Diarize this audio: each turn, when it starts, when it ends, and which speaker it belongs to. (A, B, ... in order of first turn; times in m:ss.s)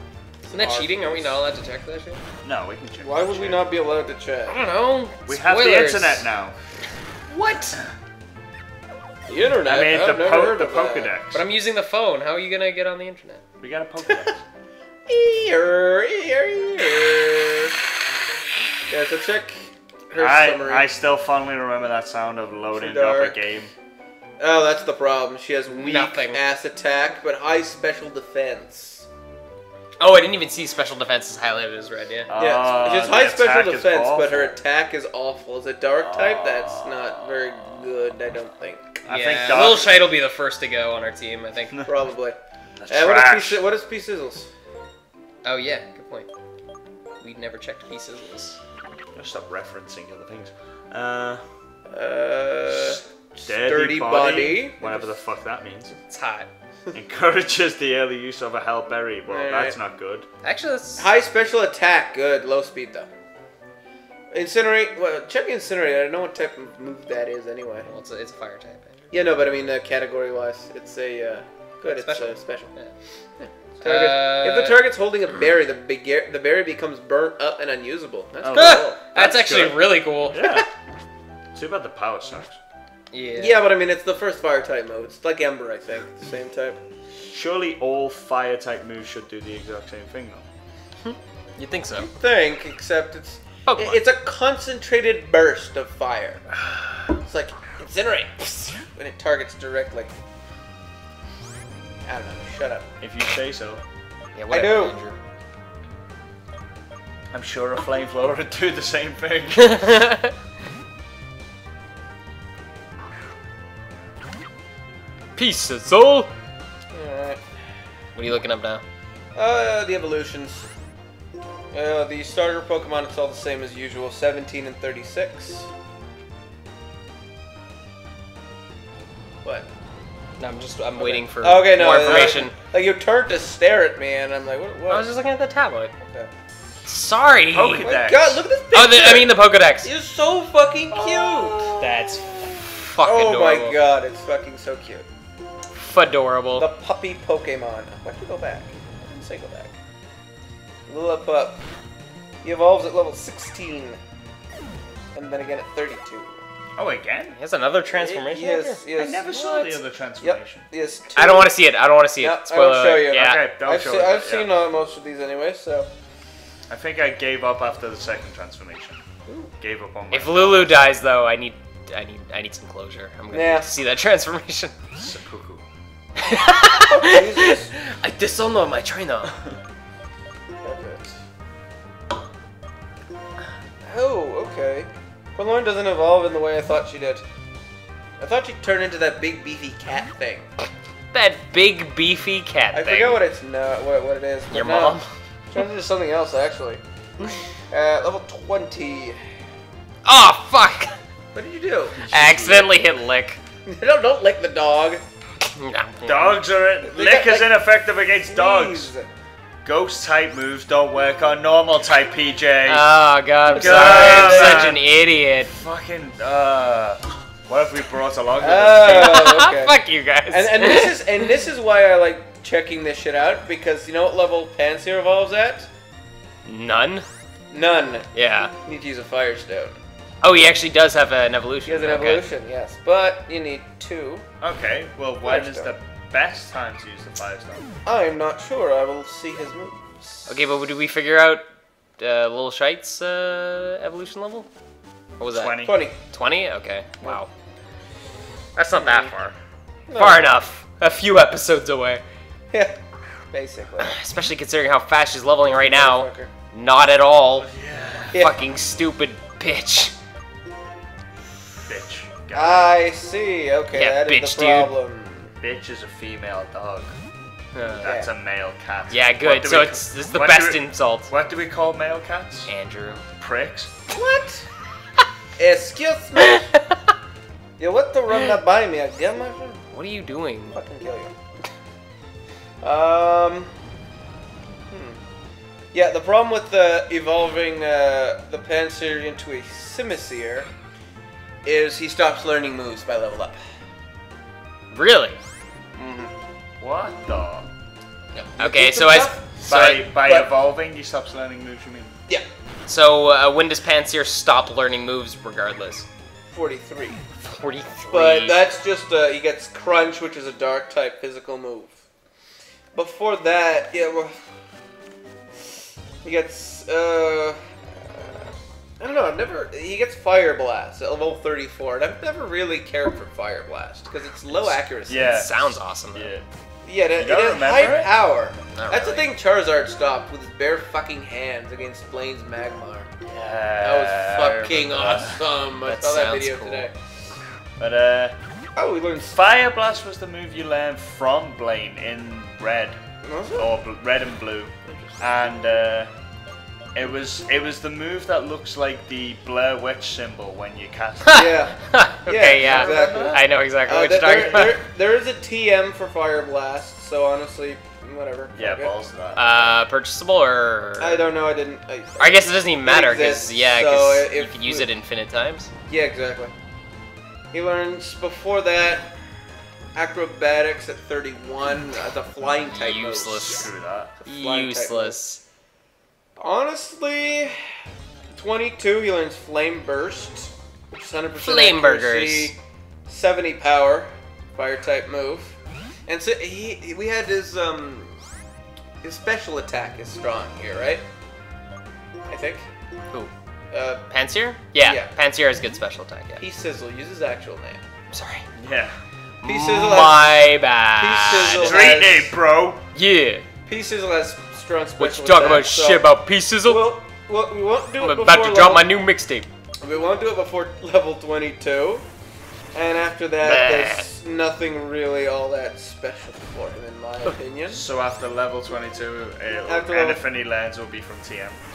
0:00.4-0:01.4 A
0:00.5-0:02.2 B
0:02.4-0:03.7 C
0:03.0-0:04.6 A
0:04.5-0:06.2 B
0:05.3-0:06.6 C
0:07.3-0:07.8 B
0:09.3-0:11.1 A
0:09.6-0:11.4 C
0:11.3-0:13.4 B
0:13.6-0:14.4 C
0:15.1-0:17.8 A
0:18.9-0:20.9 A
0:20.2-0:23.7 C
0:22.8-0:23.4 A
0:24.4-0:29.1 A
0:25.7-0:26.4 B
0:30.0-0:32.3 B
0:32.3-0:34.5 C
0:32.4-0:39.0 A
0:36.0-0:37.6 C
0:39.0-0:40.0 C
0:39.1-0:41.9 B
0:41.9-0:42.4 A
0:42.7-0:43.6 C
0:42.9-0:44.5 A
0:45.4-0:46.3 B
0:47.2-0:48.6 B
0:49.2-0:51.4 C
0:51.9-0:55.1 A
0:52.7-0:56.0 C
0:56.1-0:56.5 B
0:56.9-1:00.3 C
0:59.3-0:59.8 A
1:00.4-1:01.1 B
1:01.0-1:03.1 A
1:04.3-1:07.9 A
1:07.9-1:09.1 B
1:09.1-1:12.7 A
1:11.8-1:12.9 B
1:13.4-1:19.0 A
1:13.8-1:14.8 B
1:18.4-1:20.7 C
1:18.5-1:20.6 B
1:21.5-1:22.6 C
1:23.1-1:23.6 B
1:23.4-1:26.8 A
1:27.2-1:30.4 C
1:31.0-1:32.1 B
1:32.0-1:36.5 A
1:33.7-1:34.0 B
1:37.2-1:40.1 A
1:42.0-1:42.9 A
1:43.0-1:43.8 C
1:44.4-1:45.2 B
1:44.5-1:45.0 A
1:47.3-1:49.8 C
1:49.6-1:50.3 B
1:55.4-1:56.3 B
1:56.9-1:57.4 A
1:58.2-1:58.8 B
1:59.4-2:00.7 A
2:01.7-2:05.7 A
2:10.4-2:12.6 B
2:11.0-2:15.1 A
2:14.9-2:15.9 B
2:16.0-2:16.3 A
2:16.9-2:17.9 B
2:17.5-2:18.4 C
2:17.8-2:21.8 A
2:18.7-2:19.9 B
2:20.9-2:22.0 C
2:21.8-2:23.8 B
2:23.0-2:25.1 A
2:25.8-2:26.7 B
2:26.6-2:29.7 A
2:30.9-2:31.6 A
2:32.4-2:34.0 A
2:35.1-2:36.4 A
2:36.8-2:37.4 C
2:37.4-2:38.8 B
2:37.9-2:39.7 A
2:39.0-2:40.7 C
2:40.2-2:41.6 A
2:41.2-2:43.4 B
2:42.2-2:45.9 A
2:43.1-2:44.6 C
2:46.7-2:49.0 C
2:49.6-2:50.8 C
2:50.1-2:54.7 B
2:53.3-2:53.7 A
2:55.0-2:55.7 C
2:56.2-2:59.4 B
2:56.8-2:57.8 A
3:00.6-3:01.2 A
3:03.8-3:07.2 A
3:08.2-3:10.5 A
3:11.1-3:13.2 B
3:12.7-3:15.0 A
3:14.5-3:15.1 B
3:15.5-3:16.8 A
3:17.7-3:19.2 A
3:20.0-3:20.9 B
3:21.3-3:22.0 A
3:22.0-3:22.8 C
3:22.1-3:23.4 B
3:23.7-3:25.0 A
3:25.4-3:26.4 B
3:26.0-3:28.9 C
3:26.8-3:27.5 A
3:28.3-3:29.1 A
3:29.6-3:32.9 C
3:32.7-3:35.5 B
3:33.5-3:34.8 A
3:33.6-3:34.8 C
3:35.5-3:39.4 C
3:38.4-3:39.8 A
3:38.8-3:41.3 B
3:40.3-3:45.7 A
3:46.4-3:47.0 B
3:47.5-3:48.1 A
3:48.1-3:48.5 B
3:48.6-3:49.8 A
3:50.2-3:52.2 B
3:51.7-3:54.3 A
3:54.4-3:57.7 C
3:55.2-3:55.7 A
3:57.9-4:00.3 A
4:00.3-4:01.5 B
4:02.0-4:04.5 B
4:05.2-4:07.3 B
4:05.3-4:05.9 C
4:05.6-4:06.0 A
4:08.6-4:09.4 B
4:08.8-4:09.1 A
4:09.9-4:10.2 A
4:10.0-4:12.0 B
4:13.3-4:14.0 A
4:13.8-4:17.5 B
4:15.4-4:16.3 A
4:17.4-4:18.3 C
4:18.1-4:18.4 A
4:18.2-4:19.9 B
4:21.7-4:22.7 C
4:22.3-4:25.3 A
4:23.8-4:24.7 B
4:25.4-4:26.9 C
4:27.5-4:27.9 B
4:27.6-4:32.5 C
4:27.8-4:28.1 A
4:28.9-4:31.1 B
4:32.5-4:33.0 B
4:33.2-4:33.7 C
4:33.9-4:34.5 A
4:35.4-4:36.5 A
4:36.2-4:36.8 B
4:37.6-4:39.6 A
4:39.7-4:40.6 B
4:40.5-4:41.1 A
4:42.6-4:43.5 A
4:44.7-4:45.0 A
4:45.7-4:50.5 A
4:51.4-4:53.4 A
4:54.7-4:55.2 B
4:55.8-4:56.1 A
4:56.6-4:57.5 C
4:58.1-4:59.4 A
4:58.4-4:59.9 B
4:59.5-5:02.0 C
4:59.9-5:00.3 A
5:02.7-5:05.9 B
5:06.3-5:07.0 A
5:07.2-5:08.4 B
5:07.9-5:11.7 A
5:12.7-5:14.2 A
5:16.0-5:25.1 A
5:24.4-5:26.3 C
5:25.0-5:26.1 B
5:26.6-5:32.9 A
5:27.0-5:27.9 C
5:28.5-5:29.1 B
5:33.0-5:35.2 C
5:33.6-5:36.8 A
5:35.6-5:36.7 B
5:37.6-5:38.2 C
5:38.6-5:39.2 A
5:39.1-5:42.8 C
5:43.0-5:43.5 A
5:43.4-5:45.9 C
5:44.6-5:45.0 A
5:46.7-5:51.3 C
5:51.0-5:54.6 B
5:51.1-5:58.8 A
5:52.4-5:53.2 C
5:58.3-5:59.6 C
5:59.2-6:01.1 B
6:00.8-6:04.7 A
6:02.0-6:05.5 B
6:05.7-6:06.3 A
6:07.3-6:08.9 A
6:09.8-6:13.4 A
6:12.5-6:13.5 B
6:13.2-6:14.0 C
6:14.1-6:15.2 B
6:14.1-6:15.0 A
6:16.2-6:28.0 A
6:21.2-6:22.3 B
6:28.8-6:30.8 A
6:32.1-6:32.5 A
6:33.5-6:33.8 A
6:33.9-6:36.2 B
6:34.6-6:34.9 A
6:36.2-6:37.6 A
6:37.9-6:38.3 B
6:38.4-6:38.8 C
6:39.2-6:41.8 B
6:39.2-6:40.2 A
6:40.8-6:42.1 A
6:41.4-6:42.6 C
6:42.7-6:43.2 B
6:43.5-6:45.9 A
6:44.8-6:46.7 B
6:46.4-6:48.8 A
6:47.8-6:49.3 B
6:49.6-6:51.8 A
6:52.5-6:57.6 A
6:53.2-6:53.9 B
6:57.5-7:01.4 C
6:59.5-7:00.0 A